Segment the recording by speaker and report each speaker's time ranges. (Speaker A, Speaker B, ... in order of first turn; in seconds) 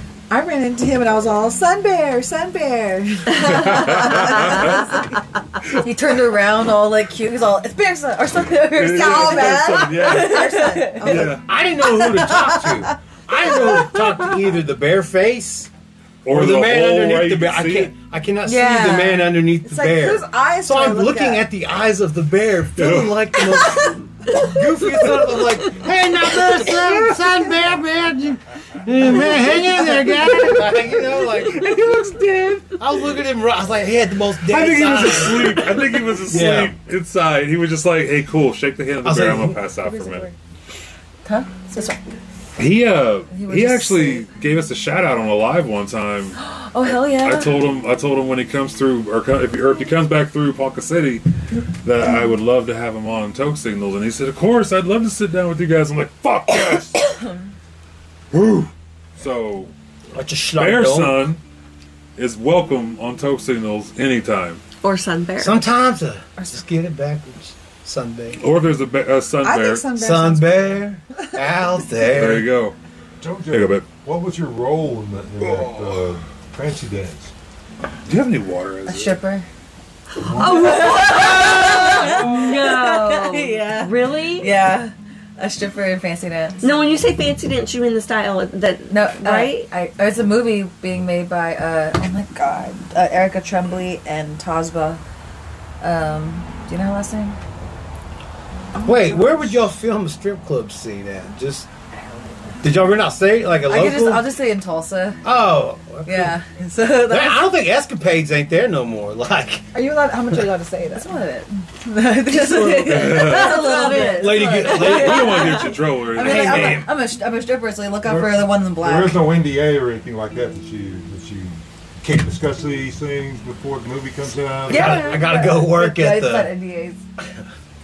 Speaker A: 0.3-5.1, 8.8-12.8, 19.6-21.5, 39.8-40.3, 69.4-70.8, 98.8-99.4, 109.7-111.1
Speaker B: 3.4-4.8, 8.8-11.5, 16.2-17.9, 22.8-23.5, 29.1-30.7, 31.5-32.6, 34.4-40.3, 42.6-51.2, 51.8-57.0, 58.3-59.7, 60.6-61.4, 62.2-64.6, 68.4-69.9, 72.1-72.8, 73.5-73.9, 78.1-79.2, 112.8-113.9, 114.7-116.9
Speaker C: 5.7-11.3, 18.4-19.4, 41.2-42.0, 43.3-44.3, 46.4-47.6, 78.9-79.5, 80.4-86.7, 88.9-95.0, 95.8-97.4, 103.7-105.2, 106.0-107.5, 110.9-119.3, 124.7-127.0
Speaker D: 11.1-15.7, 16.3-36.8, 39.0-39.6, 60.1-61.3, 65.4-68.4, 69.9-72.5, 98.8-101.7, 102.6-104.3, 105.2-106.3, 107.1-109.7, 113.9-115.5, 116.2-116.9, 124.7-126.5
Speaker E: 64.8-65.6, 80.2-84.5, 86.6-89.7, 112.3-115.5
Speaker F: 73.2-77.3, 80.3-80.8, 118.0-125.2